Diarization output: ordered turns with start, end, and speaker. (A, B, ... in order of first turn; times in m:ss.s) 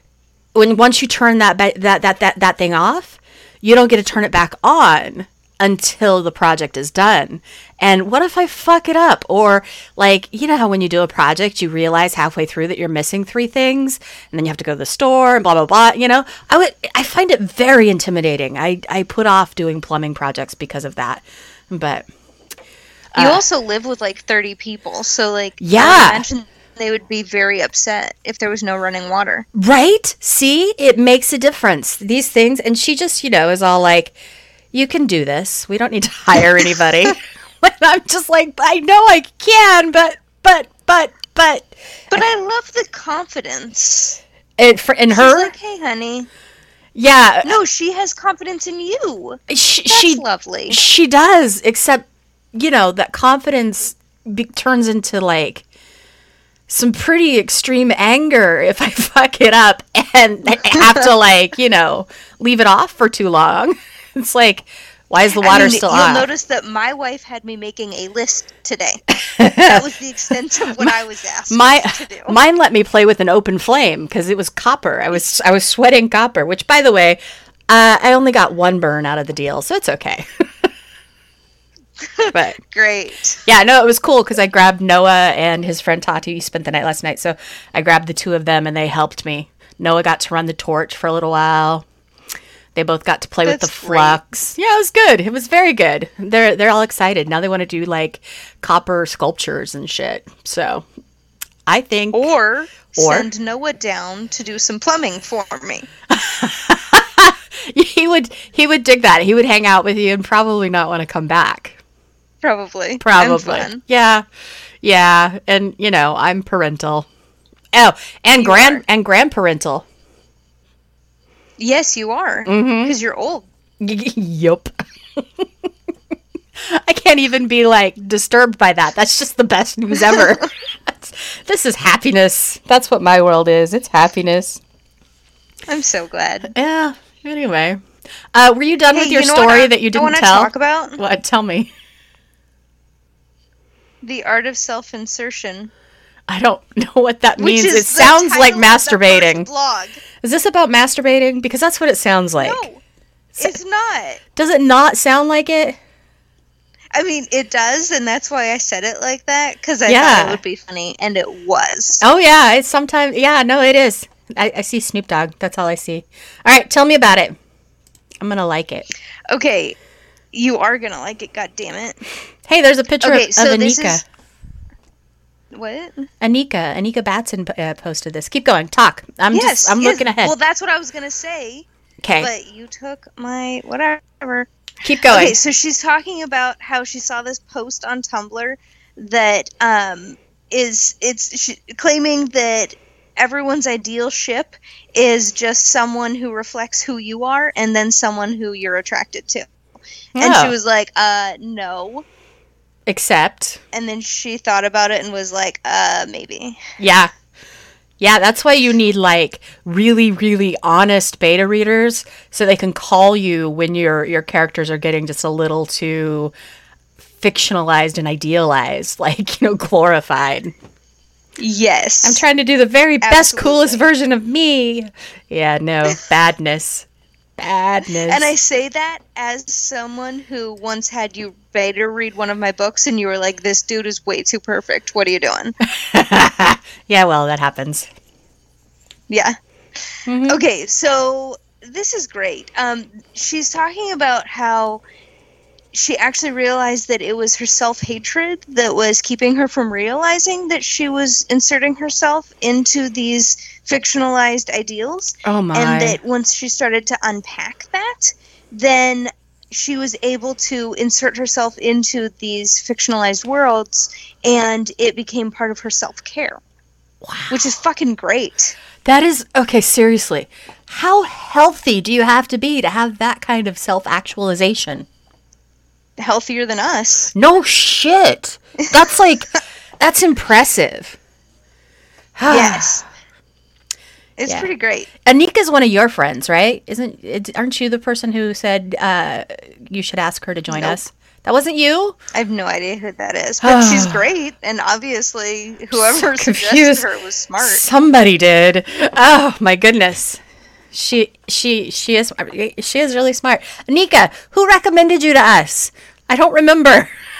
0:00.5-0:22.0 A
0:23.1-0:23.4 A
0:23.2-0:29.4 B
0:25.6-0:26.2 A
0:29.5-0:34.1 A
0:34.7-0:41.7 A
0:42.1-0:44.2 B
0:44.6-0:45.5 A
0:45.1-0:46.3 B
0:46.9-0:47.5 A
0:47.4-0:50.8 B
0:49.5-0:55.6 A
0:56.7-1:06.3 A
1:05.4-1:12.4 B
1:09.2-1:09.8 A
1:11.5-1:20.6 A
1:22.0-1:23.4 B
1:22.3-1:22.6 A
1:23.4-1:31.8 A
1:32.7-1:40.8 A
1:33.4-1:34.2 B
1:41.7-1:42.3 A
1:42.1-1:45.9 B
1:42.9-1:43.3 A
1:46.1-1:51.8 A
1:52.4-1:53.8 B
1:53.0-1:54.2 A
1:54.8-1:57.1 A
1:57.7-1:59.8 A
1:58.4-1:58.8 B
2:01.6-2:03.5 B
2:02.4-2:02.9 A
2:03.8-2:05.4 A
2:06.6-2:14.6 A
2:10.1-2:10.4 B
2:15.7-2:16.5 B
2:16.5-2:17.8 A
2:18.3-2:21.7 A
2:18.9-2:21.0 B
2:24.0-2:25.7 B
2:26.3-2:29.5 A
2:27.4-2:30.0 B
2:30.2-2:32.6 A
2:32.4-2:32.8 B
2:33.4-2:34.2 B
2:34.4-2:35.8 A
2:36.9-2:42.0 B
2:39.8-2:40.4 A
2:42.0-2:47.3 A
2:48.2-2:48.9 A
2:49.3-2:49.8 B
2:50.3-2:52.0 B
2:52.5-2:54.0 A
2:53.0-2:54.0 B
2:55.5-2:56.0 B
2:56.2-3:00.3 A
2:59.3-3:01.6 B
3:02.0-3:02.3 A
3:02.2-3:04.5 B
3:04.8-3:05.4 A
3:05.1-3:19.5 B
3:20.2-3:20.5 A
3:20.2-3:22.0 B
3:22.9-3:23.6 A
3:23.7-3:26.6 B
3:26.8-3:27.1 A
3:28.0-3:36.3 A
3:37.2-3:40.5 A
3:41.4-3:42.2 B
3:42.0-3:46.8 A
3:43.0-3:43.8 B
3:47.4-3:48.3 A
3:47.8-3:55.5 B
3:55.6-3:57.9 A
3:59.1-3:59.3 B
4:00.1-4:00.4 A
4:00.3-4:04.8 B
4:05.7-4:26.4 B
4:15.2-4:16.0 A
4:27.0-4:27.4 A
4:27.3-4:28.5 B
4:28.8-4:34.9 A
4:36.0-4:37.1 B
4:37.1-4:39.3 A
4:39.8-4:41.0 A
4:42.2-4:42.8 A
4:42.3-4:42.8 B
4:44.2-4:44.9 B
4:45.0-4:52.0 A
4:50.5-4:50.8 B
4:52.1-4:57.6 B
4:53.4-4:54.0 A
4:55.7-4:56.8 A
4:57.4-5:00.2 A
5:00.7-5:06.9 A